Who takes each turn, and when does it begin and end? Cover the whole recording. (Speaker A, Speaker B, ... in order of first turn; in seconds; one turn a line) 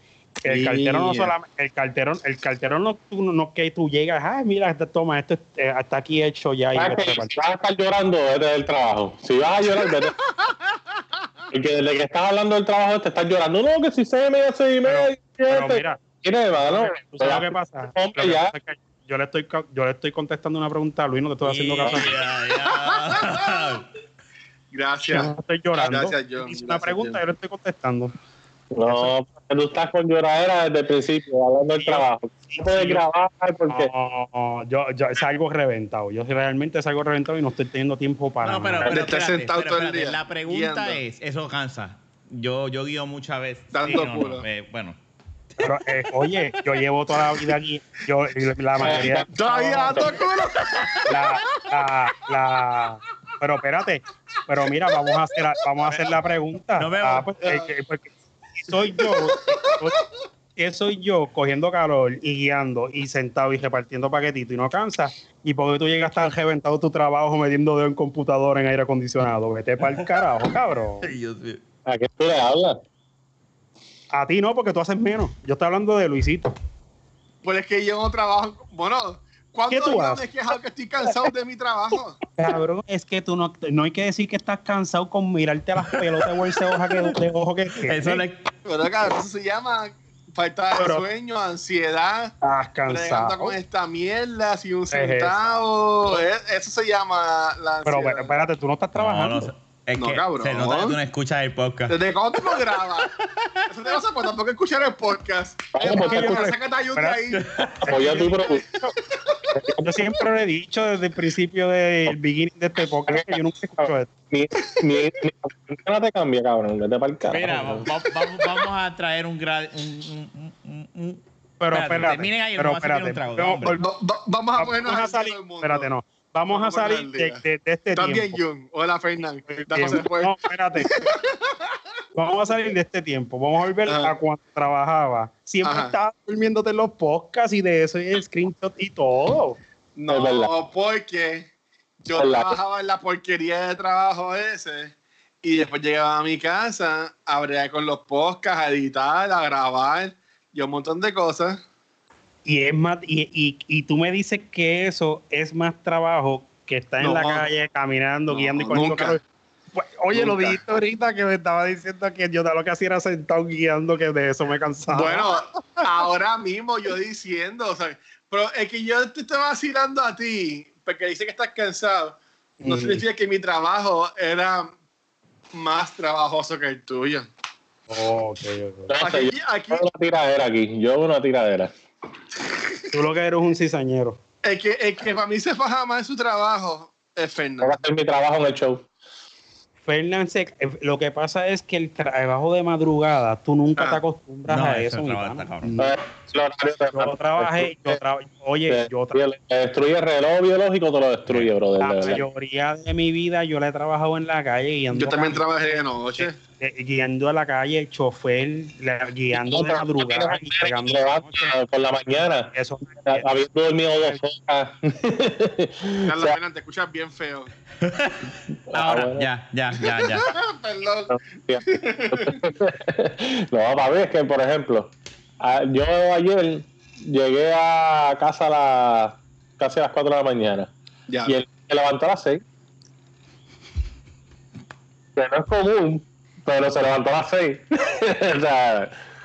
Speaker A: 0.4-7.3
Speaker B: 0.5-1.3
Speaker C: 6.7-10.1
Speaker C: 11.5-18.5
Speaker A: 14.8-16.0
Speaker A: 16.5-22.1
Speaker D: 21.4-23.9
Speaker B: 22.7-23.6
Speaker B: 24.7-27.2
Speaker A: 25.1-28.1
Speaker C: 28.7-33.9
Speaker A: 28.8-29.1
Speaker A: 31.8-33.0
Speaker A: 33.7-38.9
Speaker D: 38.4-45.0
Speaker B: 38.9-41.0
Speaker B: 43.7-44.4
Speaker A: 45.6-50.1
Speaker C: 48.8-49.2
Speaker B: 49.3-51.7
Speaker A: 51.1-60.0
Speaker B: 54.9-55.2
Speaker D: 56.8-57.3
Speaker B: 57.4-57.7
Speaker B: 58.9-59.9
Speaker A: 60.5-71.1
Speaker D: 69.8-70.2
Speaker D: 71.0-71.6
Speaker C: 71.8-72.8
Speaker A: 74.1-76.5
Speaker B: 77.4-82.2
Speaker A: 79.7-80.2
Speaker A: 82.4-88.2
Speaker D: 87.8-88.5
Speaker B: 88.7-92.3
Speaker A: 90.8-91.0
Speaker A: 92.4-93.6
Speaker B: 92.9-98.4
Speaker A: 94.9-95.5
Speaker A: 97.8-99.5
Speaker D: 99.0-103.7
Speaker B: 100.0-101.0
Speaker B: 101.9-103.1
Speaker B: 103.7-107.4
Speaker C: 105.7-106.4
Speaker A: 105.8-107.2
Speaker D: 107.3-107.9
Speaker C: 107.8-108.6
Speaker A: 107.8-108.9
Speaker B: 109.1-109.5
Speaker A: 109.5-114.1
Speaker C: 113.1-117.9
Speaker D: 117.3-123.8
Speaker A: 121.6-123.8
Speaker B: 123.7-125.9
Speaker A: 124.6-128.4
Speaker B: 126.5-127.4
Speaker B: 127.9-131.7
Speaker A: 129.5-131.0
Speaker A: 132.1-139.6
Speaker B: 133.8-134.1
Speaker B: 135.6-135.9
Speaker B: 140.0-141.5
Speaker C: 140.1-140.5
Speaker B: 142.0-151.6
Speaker C: 142.2-142.6
Speaker A: 152.4-159.2
Speaker B: 157.0-157.4
Speaker B: 158.3-159.2
Speaker A: 159.7-165.4
Speaker B: 160.1-160.6
Speaker B: 164.9-174.7
Speaker A: 172.6-173.0
Speaker B: 175.5-177.3
Speaker A: 177.9-178.9
Speaker C: 178.9-181.7
Speaker B: 179.0-179.8
Speaker B: 182.4-182.8
Speaker A: 182.9-184.2
Speaker B: 184.4-187.8
Speaker C: 187.6-188.8
Speaker A: 189.8-196.0
Speaker D: 194.4-195.8
Speaker C: 195.8-198.0
Speaker A: 196.9-199.2
Speaker C: 198.7-202.2
Speaker A: 201.8-211.5
Speaker B: 204.9-206.3
Speaker C: 209.3-212.5
Speaker A: 212.5-213.2
Speaker C: 213.1-216.3
Speaker B: 216.0-217.5
Speaker D: 217.8-220.3
Speaker C: 218.7-219.3
Speaker B: 220.0-222.4
Speaker C: 221.1-230.7
Speaker B: 231.1-231.3
Speaker C: 231.2-232.4
Speaker C: 235.2-238.9